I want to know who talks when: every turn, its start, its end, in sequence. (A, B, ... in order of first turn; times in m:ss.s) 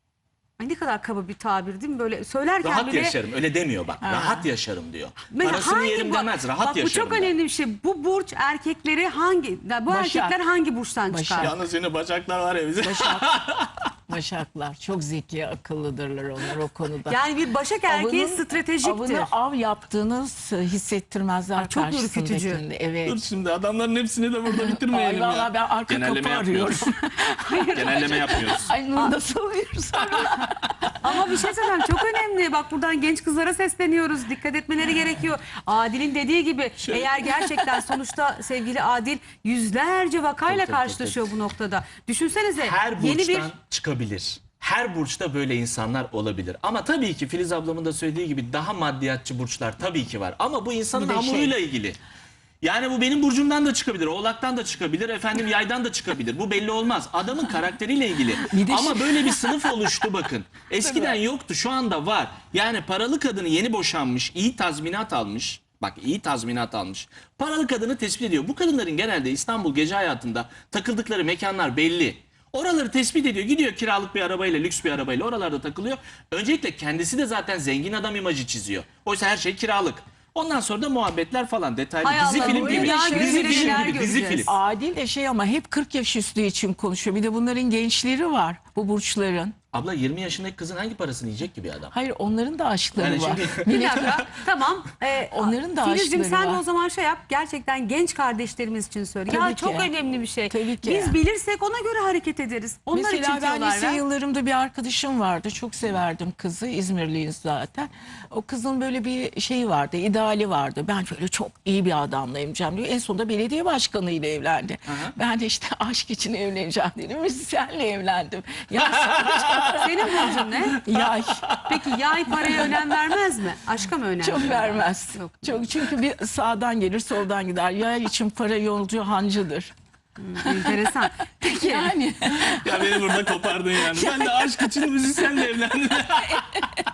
0:00.6-0:03.2 A
0:02.6-0:07.3 B
0:04.0-0:04.5 C
0:05.3-0:11.5 A
0:09.9-0:10.4 C
0:11.1-0:11.5 C
0:11.4-0:13.9 B
0:12.8-0:13.3 C
0:14.1-0:17.2 C
0:17.1-0:19.3 A
0:17.9-0:23.2 C
0:21.6-0:22.6 A
0:23.0-0:26.9 B
0:24.4-0:30.7 C
0:27.4-0:28.4 A
0:27.7-0:28.7 B
0:30.1-0:30.3 B
0:31.0-0:43.5 A
0:36.8-0:37.8 B
0:40.5-0:41.3 B
0:42.6-0:52.0 B
0:50.9-0:51.6 C
0:52.6-1:24.5 B
0:58.4-1:00.1 C
1:00.8-1:01.2 C
1:22.0-1:24.5 A
1:22.3-1:29.6 C
1:29.7-1:31.9 B
1:31.9-1:34.2 C
1:33.0-1:34.2 B
1:33.6-1:44.0 A
1:35.3-1:36.6 C
1:39.3-1:39.9 C
1:40.5-1:41.2 C
1:42.9-2:01.6 C
1:54.9-1:55.1 B
1:58.8-1:59.8 B
1:59.6-2:00.8 A
2:00.9-2:01.6 B
2:01.6-2:05.6 A
2:04.2-2:09.7 C
2:10.2-2:11.9 A
2:10.4-2:10.8 C
2:11.4-2:15.5 C
2:12.2-2:16.6 B
2:16.2-2:16.8 C